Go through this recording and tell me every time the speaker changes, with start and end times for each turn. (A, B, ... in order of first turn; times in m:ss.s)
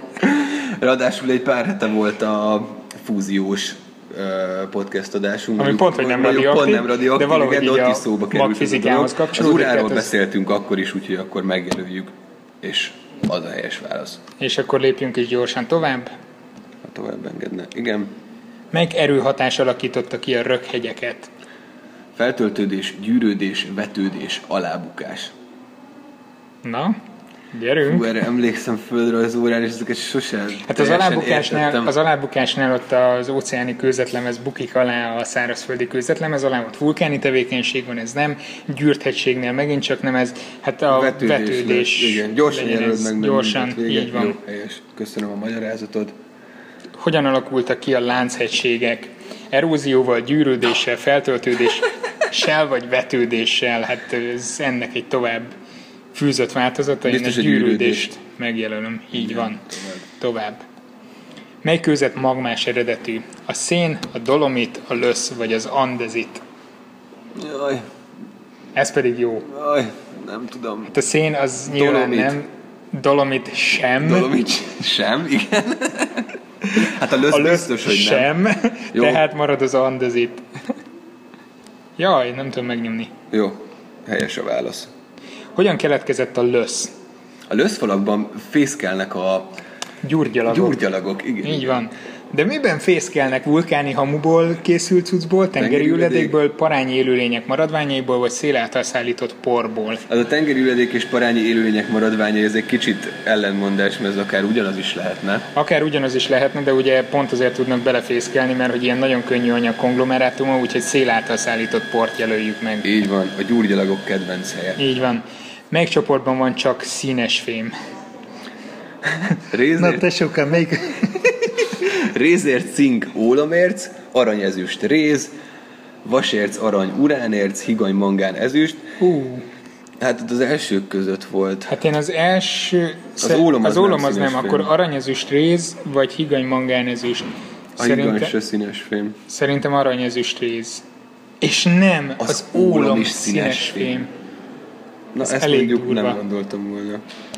0:00.2-0:14.2 A
0:05.6-0:10.1 B
0:14.4-0:16.1 B
0:16.8-0:18.1 A
0:18.7-0:21.3 B
0:22.1-0:25.3 A
0:26.6-0:27.0 B
0:27.5-0:28.1 B
0:27.8-0:31.9 A
0:30.6-0:44.4 B
0:40.9-0:46.1 A
0:47.0-0:55.5 B
0:56.1-1:00.6 B
0:57.0-0:58.1 A
0:59.1-1:00.0 A
1:01.6-1:06.4 B
1:07.3-1:07.9 A
1:08.7-1:09.5 B
1:09.5-1:10.9 A
1:10.9-1:14.3 B
1:11.7-1:12.4 A
1:14.0-1:18.3 A
1:16.8-1:20.4 B
1:18.9-1:19.2 A
1:22.0-1:23.1 B
1:23.3-1:24.9 A
1:25.6-1:26.9 B
1:27.5-1:29.6 A
1:30.0-1:30.8 B
1:30.4-1:31.9 A
1:31.4-1:40.0 B
1:35.6-1:36.3 A
1:40.1-1:45.5 A
1:45.5-1:52.8 B
1:52.8-1:54.8 A
1:54.8-1:57.7 B
1:59.2-2:00.1 A
1:59.8-2:01.1 B
2:01.7-2:05.3 A
2:06.0-2:08.8 A
2:09.0-2:09.4 B
2:10.0-2:11.7 A
2:11.7-2:18.3 B
2:13.2-2:14.7 A
2:17.8-2:19.2 A
2:19.3-2:20.8 B
2:21.4-2:24.1 B
2:22.2-2:24.1 A
2:25.1-2:27.0 A
2:25.2-2:26.2 B